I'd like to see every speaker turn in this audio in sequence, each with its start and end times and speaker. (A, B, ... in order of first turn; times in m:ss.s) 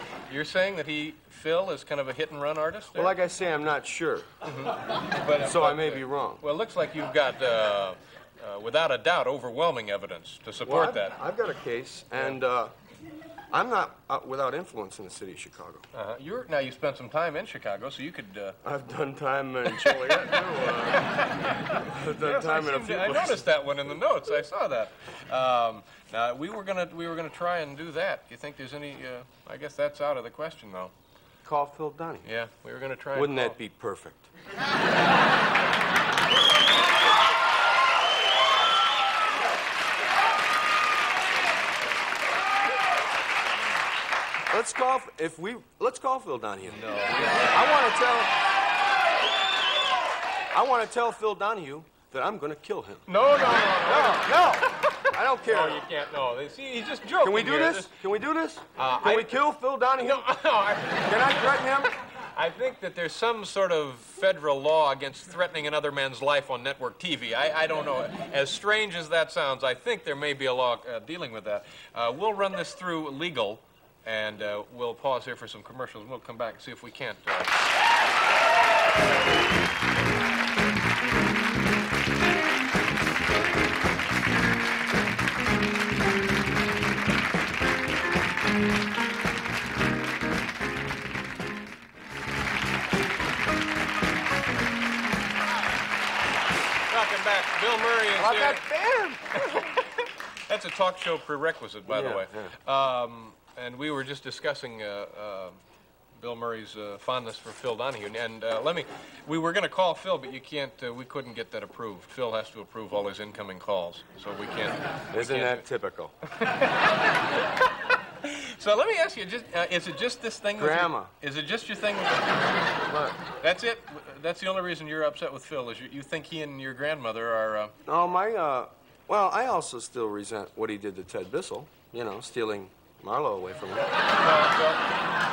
0:00.3-0:03.2 A
0:02.9-0:04.3 B
0:04.4-0:11.2 A
0:05.4-0:06.4 B
0:10.6-0:12.7 B
0:13.5-0:15.8 B
0:15.9-0:18.6 A
0:18.6-0:23.4 B
0:22.2-0:30.9 A
0:31.4-0:32.3 B
0:32.2-0:33.6 A
0:33.1-0:34.3 B
0:44.5-0:48.3 B
0:46.7-0:47.5 A
0:50.5-0:53.1 B
0:53.1-0:54.4 A
0:53.7-0:55.8 B
0:55.4-0:57.9 A
0:57.2-1:00.3 B
0:58.8-0:59.4 A
1:00.0-1:01.5 A
1:01.0-1:01.9 B
1:02.3-1:17.6 A
1:36.9-1:38.6 A
1:38.2-1:39.4 B
1:40.5-1:45.6 A
1:41.9-1:42.5 B
1:46.2-1:55.6 A
1:55.1-1:56.1 B
1:56.3-1:57.1 A
1:58.2-2:02.5 A
2:00.6-2:01.1 B
2:02.9-2:03.2 B
2:03.4-2:07.7 A
2:07.8-2:13.9 B
2:14.1-2:14.8 A